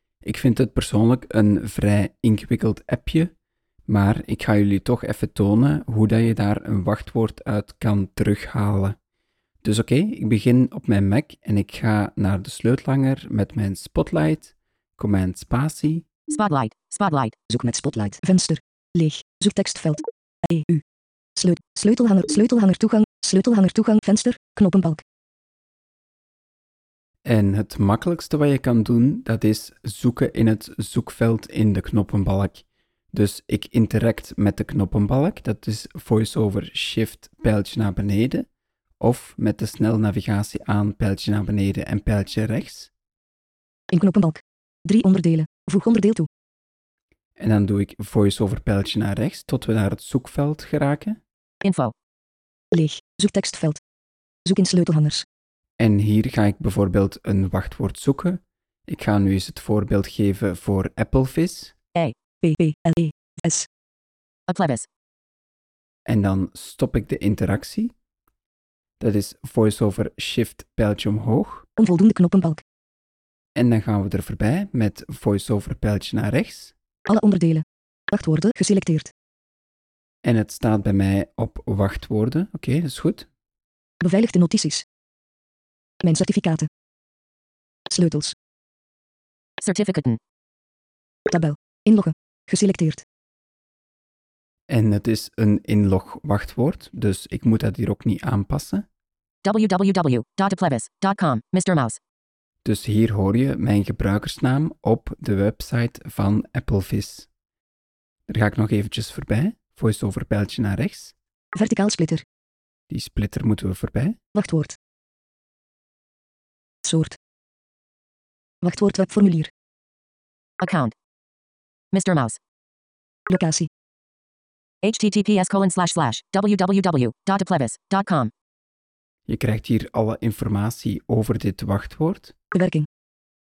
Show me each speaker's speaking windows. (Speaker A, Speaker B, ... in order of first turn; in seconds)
Speaker A: 0.2-3.3, 3.9-9.0, 9.6-16.1, 27.2-38.5, 39.0-42.9, 47.4-51.2, 55.8-61.7, 66.0-67.9, 69.0-71.7, 73.5-76.7, 80.2-83.3, 94.7-98.8, 102.6-107.3, 108.3-111.2, 112.9-114.2, 129.3-132.3
Speaker B: 16.3-17.3, 51.6-51.9, 64.5-64.9, 89.6-90.2, 99.4-102.0, 120.6-120.9, 121.9-122.4, 124.8-128.3
Speaker C: 17.5-20.8, 21.4-25.0, 43.9-46.3, 52.7-53.8, 54.5-55.2, 62.4-63.7, 71.8-72.6, 77.1-79.1, 84.0-84.8, 86.0-86.7, 87.9-88.3, 91.3-93.0, 111.5-112.2, 114.3-114.8, 116.8-117.2, 118.6-119.5, 123.3-123.7, 132.5-132.9